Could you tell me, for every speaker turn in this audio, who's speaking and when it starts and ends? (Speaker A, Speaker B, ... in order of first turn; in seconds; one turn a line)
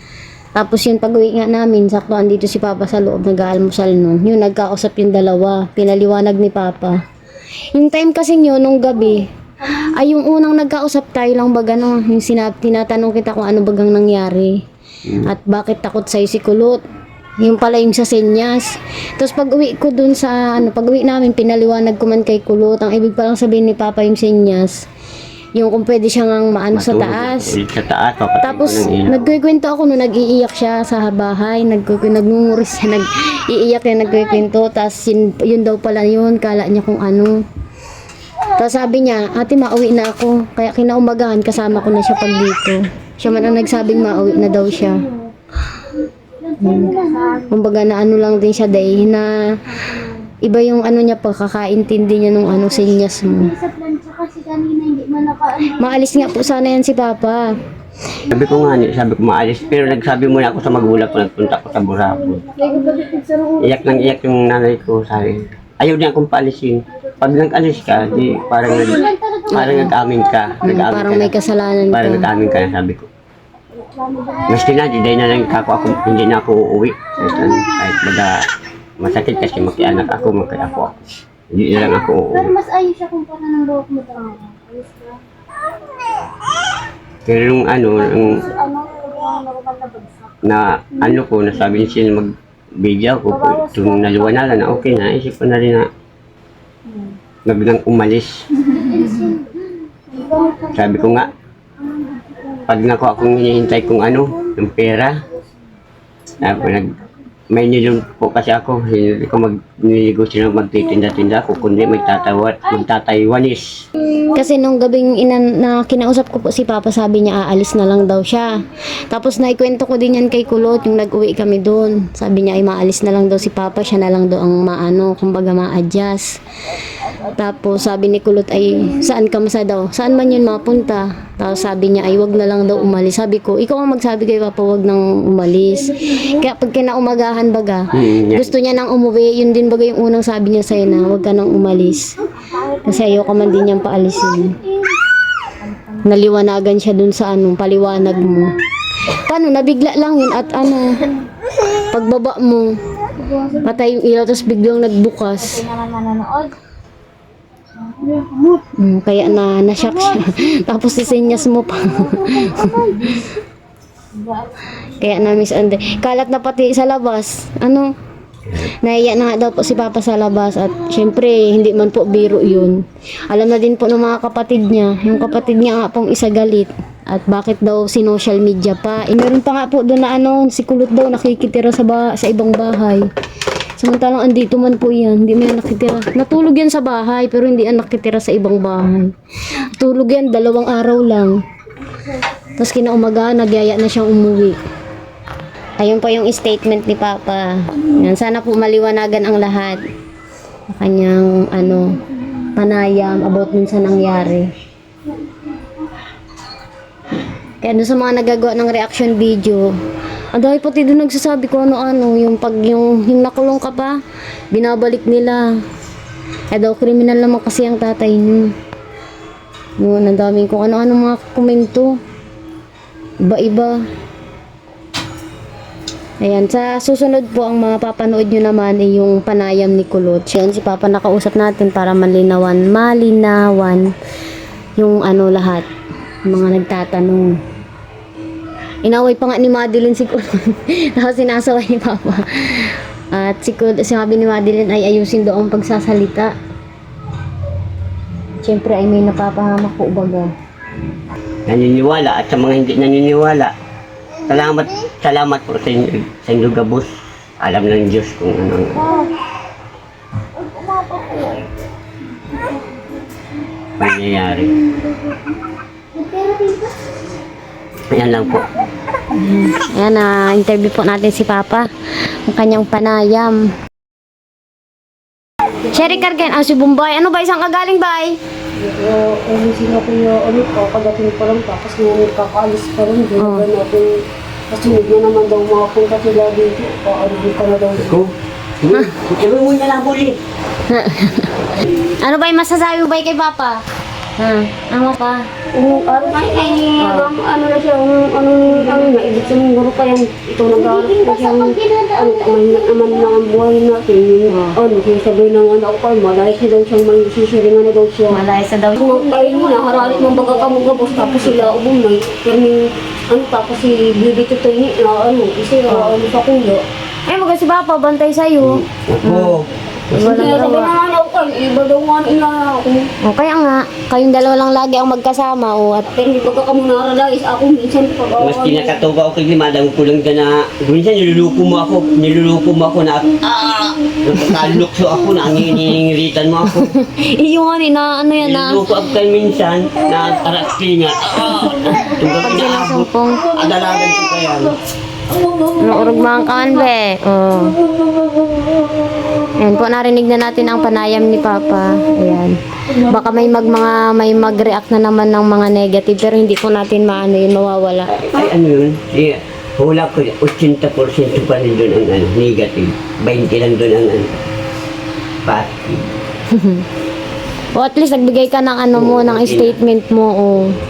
Speaker A: 0.6-7.0
Speaker A: 7.7-14.6
Speaker A: 15.2-16.8
Speaker A: 17.4-24.8
Speaker A: 25.6-27.6
Speaker B: 26.7-29.3
Speaker A: 28.4-37.4
Speaker A: 38.5-45.0
Speaker A: 46.6-49.4
Speaker C: 46.8-47.4
Speaker A: 50.4-53.5
Speaker C: 53.7-55.4
Speaker A: 55.6-57.5
Speaker B: 58.3-62.5
Speaker C: 62.5-64.2
Speaker B: 63.6-71.3
Speaker C: 68.3-69.5
Speaker A: 69.5-69.9
Speaker A: 70.6-72.3
Speaker B: 71.9-73.1
Speaker C: 73.8-74.6
Speaker B: 74.5-78.5
Speaker C: 77.2-77.7
Speaker B: 79.0-81.0
Speaker C: 79.3-80.9
Speaker B: 81.5-82.5
Speaker C: 81.8-85.2
Speaker B: 87.2-88.4
Speaker C: 88.0-90.3
Speaker B: 90.4-95.9
Speaker C: 93.3-94.7
Speaker C: 96.9-97.2
Speaker B: 97.5-98.4
Speaker C: 98.8-99.3
Speaker C: 100.1-101.1
Speaker B: 100.7-101.3
Speaker B: 102.7-105.2
Speaker B: 106.4-107.0
Speaker B: 107.5-113.9
Speaker A: 114.3-118.6
Speaker A: 119.1-126.4
Speaker A: 127.2-142.1
Speaker B: 137.9-138.5
Speaker A: 142.7-144.6
Speaker A: 146.0-148.6
Speaker A: 149.2-151.1
Speaker A: 151.9-152.7
Speaker A: 153.5-155.7
Speaker C: 155.7-156.5
Speaker C: 158.0-158.6
Speaker A: 158.8-163.3
Speaker A: 164.8-167.9
Speaker A: 168.6-172.8
Speaker A: 173.3-183.1
Speaker A: 183.8-189.1
Speaker A: 189.8-191.4
Speaker A: 192.6-194.6
Speaker A: 195.8-199.8
Speaker A: 200.7-202.0
Speaker A: 202.6-204.5
Speaker A: 207.6-209.7
Speaker A: 210.3-214.0
Speaker A: 214.5-215.5
Speaker A: 216.5-218.5
Speaker A: 219.8-221.9
Speaker A: 223.2-223.8
Speaker A: 226.2-233.9
Speaker A: 234.8-235.7
Speaker A: 236.3-237.4
Speaker A: 238.8-246.3
Speaker A: 248.4-250.3
Speaker B: 251.5-253.5
Speaker B: 254.3-258.9
Speaker C: 260.4-261.5
Speaker B: 263.8-264.6
Speaker C: 266.0-266.7
Speaker B: 267.9-268.5
Speaker A: 269.1-271.7
Speaker A: 272.3-273.5
Speaker A: 275.7-278.2
Speaker C: 278.6-283.9
Speaker A: 283.2-283.5
Speaker C: 284.5-288.0
Speaker B: 287.8-290.2
Speaker A: 290.7-293.6
Speaker A: 294.2-295.2
Speaker C: 295.5-308.2
Speaker A: 296.8-297.1
Speaker A: 300.6-302.0
Speaker A: 304.3-304.6
Speaker A: 308.1-311.6
Speaker C: 308.8-316.6
Speaker A: 315.7-315.9
Speaker A: 317.1-319.4
Speaker B: 318.4-320.4
Speaker A: 319.9-320.7
Speaker C: 320.0-322.9
Speaker A: 323.0-325.9
Speaker C: 325.9-328.8
Speaker B: 328.2-336.7
Speaker A: 336.5-338.7
Speaker B: 338.2-344.6
Speaker A: 341.9-343.3
Speaker C: 345.1-346.5
Speaker A: 345.6-347.6
Speaker C: 347.9-348.6
Speaker A: 349.4-358.0
Speaker C: 352.8-353.1
Speaker B: 358.0-364.1
Speaker B: 365.2-365.8
Speaker A: 366.3-366.6
Speaker A: 367.5-370.5
Speaker B: 368.7-369.6